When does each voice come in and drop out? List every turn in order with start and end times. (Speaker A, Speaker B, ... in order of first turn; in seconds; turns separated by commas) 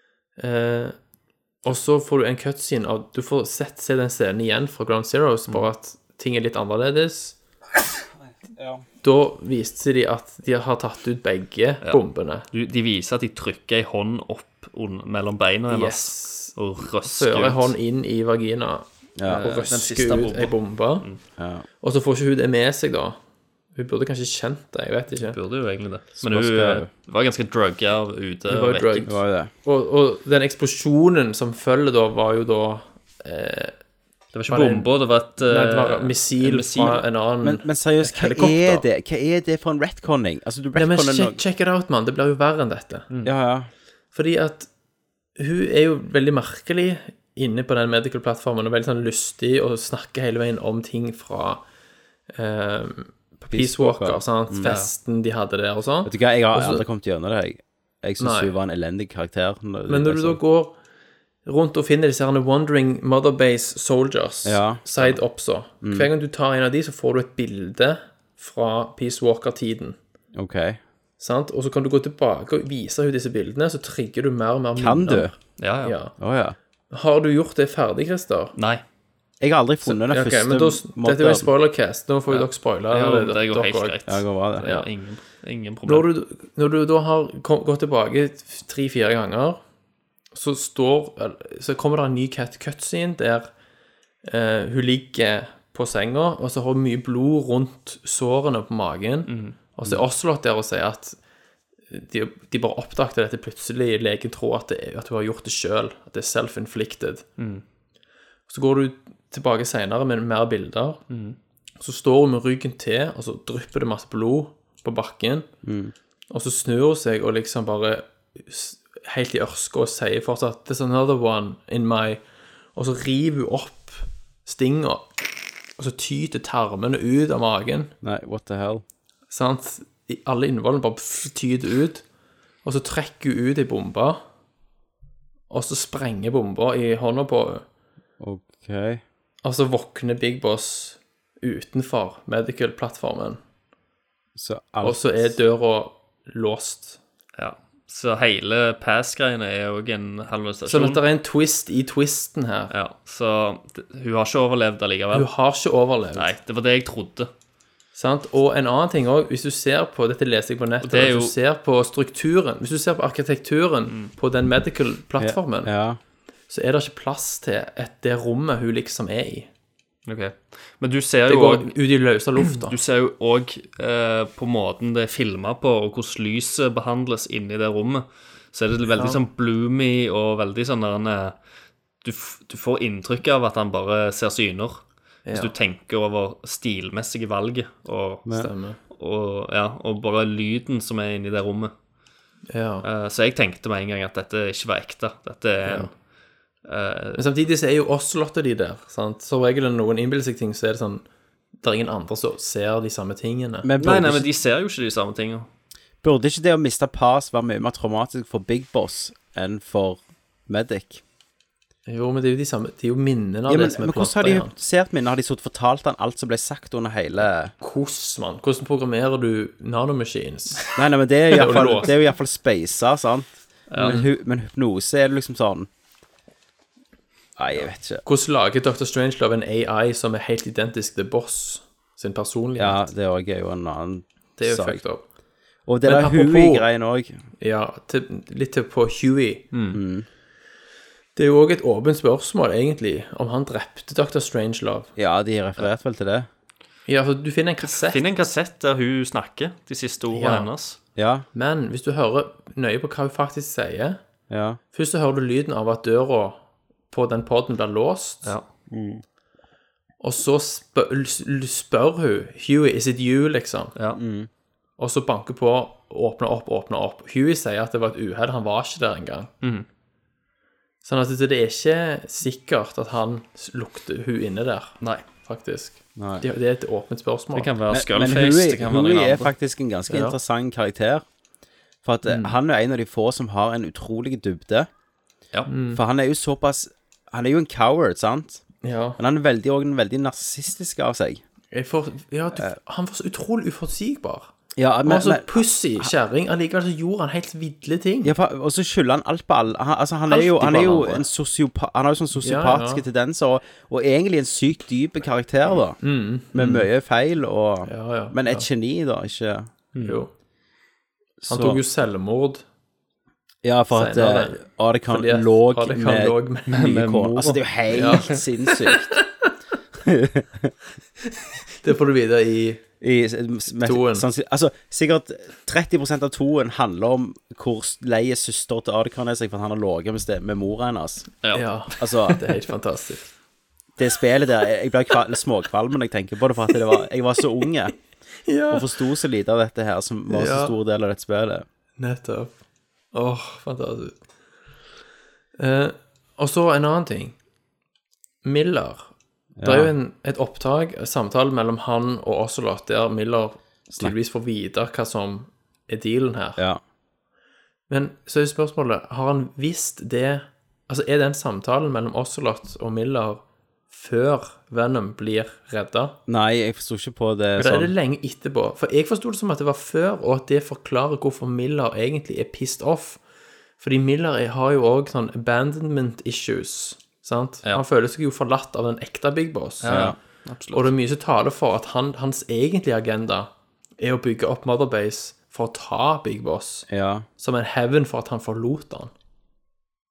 Speaker A: 0.4-1.0, Speaker A: 1.6-7.4, Speaker B: 8.6-8.8, Speaker A: 9.0-12.5, Speaker C: 11.8-17.7, Speaker A: 15.7-25.4, Speaker B: 19.2-19.5, Speaker C: 19.3-21.2, Speaker B: 21.4-21.6, Speaker C: 25.3-29.1, Speaker B: 26.1-26.9, Speaker A: 28.5-33.8, Speaker B: 29.1-29.5, Speaker C: 34.3-37.0, Speaker A: 34.5-38.8, Speaker B: 37.4-41.4, Speaker A: 40.8-43.1, Speaker B: 43.2-43.7, Speaker A: 44.1-44.7, Speaker A: 45.4-51.7, Speaker A: 52.3-56.9, Speaker B: 53.5-54.7, Speaker C: 54.6-54.9, Speaker B: 56.0-60.4, Speaker A: 58.2-58.5, Speaker A: 59.9-60.8, Speaker A: 61.5-70.0, Speaker B: 64.5-64.8, Speaker B: 65.8-66.1, Speaker B: 70.3-70.8, Speaker A: 71.2-76.2, Speaker B: 74.8-75.5, Speaker C: 75.6-76.0, Speaker B: 76.2-76.6, Speaker A: 76.9-78.5, Speaker C: 78.5-78.8, Speaker B: 79.4-81.5, Speaker A: 79.8-84.9, Speaker C: 82.3-86.1, Speaker B: 84.1-84.6, Speaker A: 85.9-89.6, Speaker A: 90.3-93.5, Speaker A: 94.2-101.2, Speaker C: 99.3-99.6, Speaker A: 101.9-107.2, Speaker C: 107.4-107.6, Speaker A: 108.5-111.0, Speaker C: 111.1-111.4, Speaker A: 111.8-115.5, Speaker B: 115.6-115.9, Speaker A: 116.3-122.2, Speaker A: 122.7-127.9, Speaker B: 128.0-128.8, Speaker A: 129.3-132.1, Speaker A: 132.6-134.2, Speaker A: 135.5-137.7, Speaker B: 138.2-139.0, Speaker A: 139.4-143.4, Speaker B: 144.4-145.3, Speaker A: 144.8-147.0, Speaker C: 147.4-151.0, Speaker A: 150.7-152.7, Speaker C: 152.7-155.3, Speaker A: 155.1-156.3, Speaker C: 156.2-157.3, Speaker A: 158.0-165.7, Speaker C: 160.8-161.3, Speaker B: 165.2-166.0, Speaker A: 166.5-169.5, Speaker C: 170.1-171.9, Speaker A: 171.3-172.8, Speaker C: 172.5-181.4, Speaker C: 182.0-188.3, Speaker A: 185.3-185.5, Speaker A: 188.3-188.8, Speaker C: 188.8-191.7, Speaker A: 192.5-192.9, Speaker C: 192.8-196.0, Speaker A: 195.7-195.9, Speaker C: 196.6-197.2, Speaker A: 197.1-203.7, Speaker B: 203.6-204.3, Speaker C: 203.8-205.5, Speaker B: 206.0-211.0, Speaker A: 211.9-214.5, Speaker B: 213.5-217.5, Speaker A: 217.6-220.7, Speaker B: 220.8-225.7, Speaker A: 221.3-221.9, Speaker C: 223.7-224.0, Speaker B: 227.4-228.0, Speaker A: 228.0-232.8, Speaker B: 232.6-234.8, Speaker A: 234.4-235.1, Speaker B: 235.7-237.2, Speaker A: 235.8-236.7, Speaker A: 237.4-239.5, Speaker C: 239.5-239.8, Speaker B: 239.7-240.1, Speaker A: 241.2-244.9, Speaker B: 245.0-246.3, Speaker A: 246.9-248.1, Speaker C: 247.7-250.8, Speaker A: 250.1-250.5, Speaker B: 251.0-251.2, Speaker A: 251.3-254.0, Speaker B: 254.3-254.6, Speaker A: 254.7-258.3, Speaker B: 258.7-259.0, Speaker A: 260.0-263.8, Speaker B: 264.0-264.3, Speaker A: 264.8-269.3, Speaker A: 270.8-277.5, Speaker B: 276.0-276.2, Speaker C: 277.4-279.3, Speaker B: 277.7-281.1, Speaker A: 279.9-280.2, Speaker B: 281.8-284.7, Speaker A: 282.1-282.3, Speaker A: 285.5-285.8, Speaker B: 285.7-291.2, Speaker A: 288.6-289.0, Speaker A: 291.5-294.3, Speaker B: 294.6-295.9, Speaker A: 294.9-298.1, Speaker B: 298.0-309.5, Speaker A: 300.1-301.1, Speaker A: 302.2-302.8, Speaker A: 305.8-306.7, Speaker A: 307.7-308.5, Speaker C: 309.7-310.0, Speaker A: 309.9-310.1, Speaker B: 311.2-311.6, Speaker A: 311.3-312.4, Speaker B: 313.4-319.0, Speaker A: 313.7-316.6, Speaker C: 316.5-318.2, Speaker A: 317.7-319.3, Speaker B: 319.9-320.5, Speaker A: 321.6-322.6, Speaker B: 322.8-332.1, Speaker A: 323.6-324.1, Speaker C: 331.2-332.2, Speaker A: 331.3-333.1, Speaker B: 333.8-341.4, Speaker A: 338.3-338.7, Speaker A: 340.1-340.5, Speaker A: 341.8-344.1, Speaker A: 345.4-347.2, Speaker A: 348.2-356.4, Speaker B: 349.4-349.7, Speaker A: 357.7-366.0, Speaker B: 366.1-367.7, Speaker A: 367.4-373.0, Speaker A: 373.6-379.9, Speaker C: 379.6-380.7, Speaker B: 379.7-380.0, Speaker A: 380.5-388.9, Speaker B: 386.7-387.1